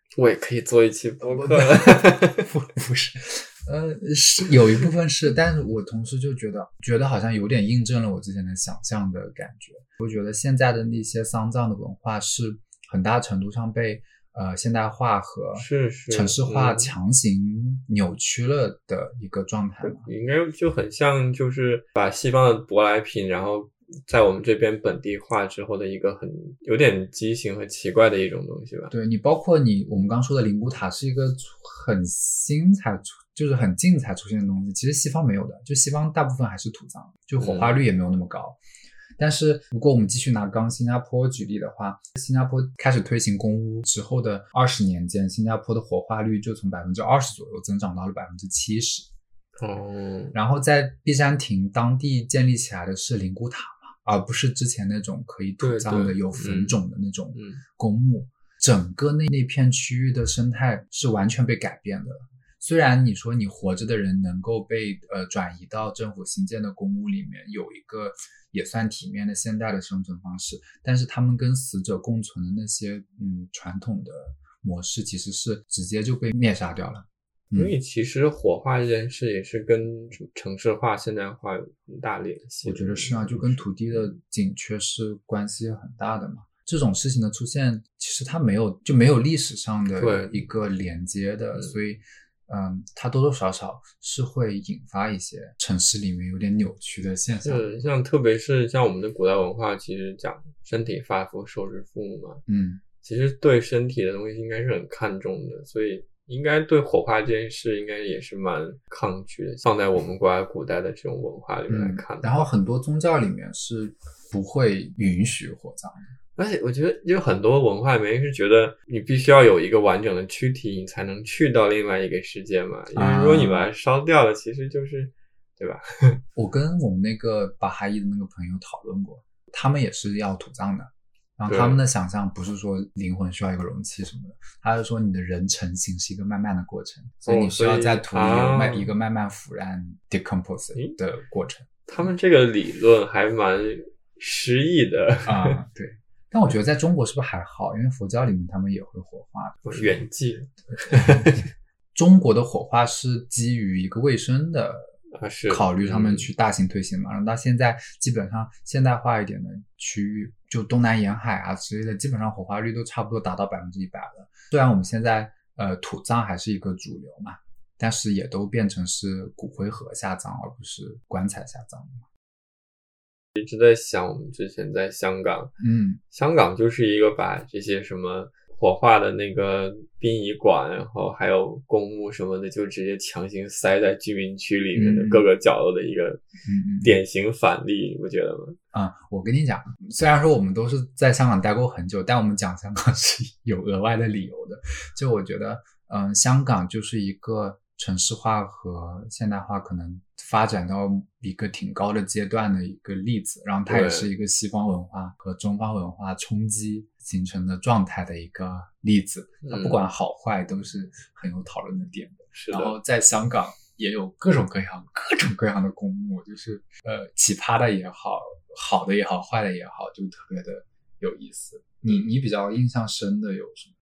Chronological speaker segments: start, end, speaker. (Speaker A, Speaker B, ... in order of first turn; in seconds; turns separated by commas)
Speaker A: 0.2-2.5, Speaker B: 1.2-20.1, Speaker A: 15.5-16.9, Speaker A: 19.8-28.9, Speaker B: 28.9-38.6, Speaker A: 37.4-37.8, Speaker B: 39.2-49.1, Speaker A: 49.6-50.3, Speaker B: 50.3-77.7, Speaker A: 55.6-56.8, Speaker A: 57.3-57.6, Speaker A: 77.5-84.1, Speaker B: 82.6-97.8, Speaker A: 90.0-90.5, Speaker A: 97.4-102.4, Speaker B: 102.5-102.8, Speaker A: 103.0-112.5, Speaker B: 111.7-116.1, Speaker A: 116.3-126.2, Speaker B: 123.0-123.7, Speaker B: 126.3-142.1, Speaker A: 131.5-131.8, Speaker A: 137.2-138.9, Speaker A: 141.9-145.6, Speaker B: 145.2-150.0, Speaker A: 149.6-151.5, Speaker B: 150.8-151.4, Speaker B: 151.9-154.9, Speaker A: 155.1-156.3, Speaker B: 155.5-172.0, Speaker A: 173.3-175.5, Speaker B: 175.6-176.0, Speaker A: 176.1-186.2, Speaker B: 184.7-185.3, Speaker B: 186.4-187.0, Speaker A: 186.8-188.6, Speaker B: 188.7-223.7, Speaker A: 203.7-204.1, Speaker A: 209.4-209.8, Speaker A: 212.3-212.8